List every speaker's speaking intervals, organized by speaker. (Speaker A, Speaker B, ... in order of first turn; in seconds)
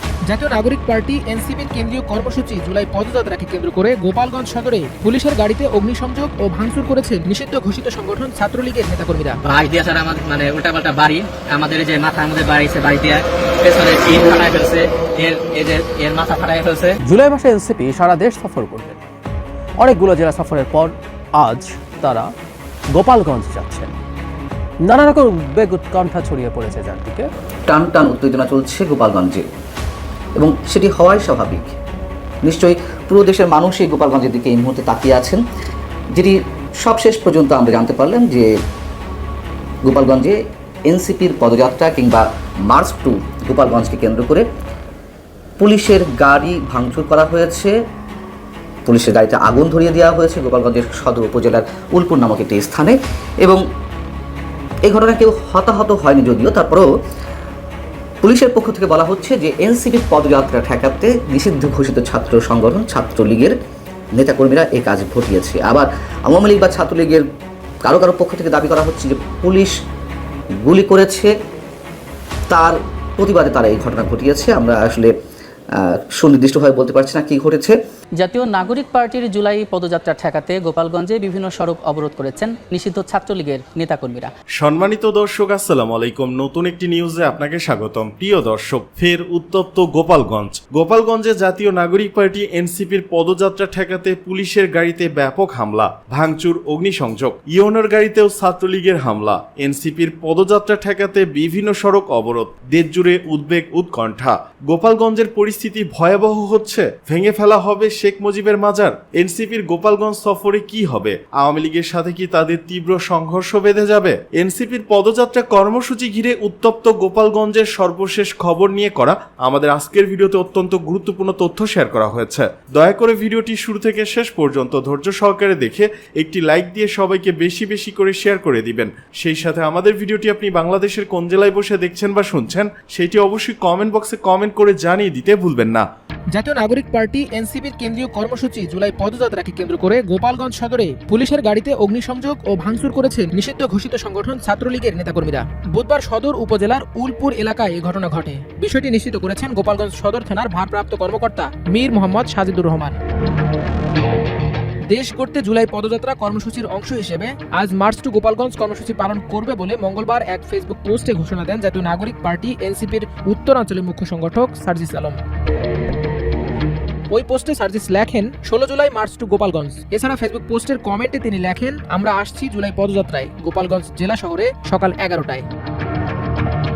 Speaker A: 0.3-9.4, 136.3-153.0, 154.9-165.2, 167.1-175.4
Speaker B: 9.4-17.0
Speaker C: 17.0-19.0, 19.8-22.3, 22.9-23.9, 24.8-27.3
Speaker D: 27.7-29.4, 30.4-31.7, 32.4-35.4, 36.1-38.5, 39.9-40.4, 40.9-44.4, 45.6-47.7, 48.9-53.6, 54.9-56.9, 58.2-63.5, 64.2-67.2, 67.8-69.7, 70.7-71.3, 72.5-75.1, 75.8-77.8
Speaker E: 78.2-84.3
Speaker F: 84.5-135.9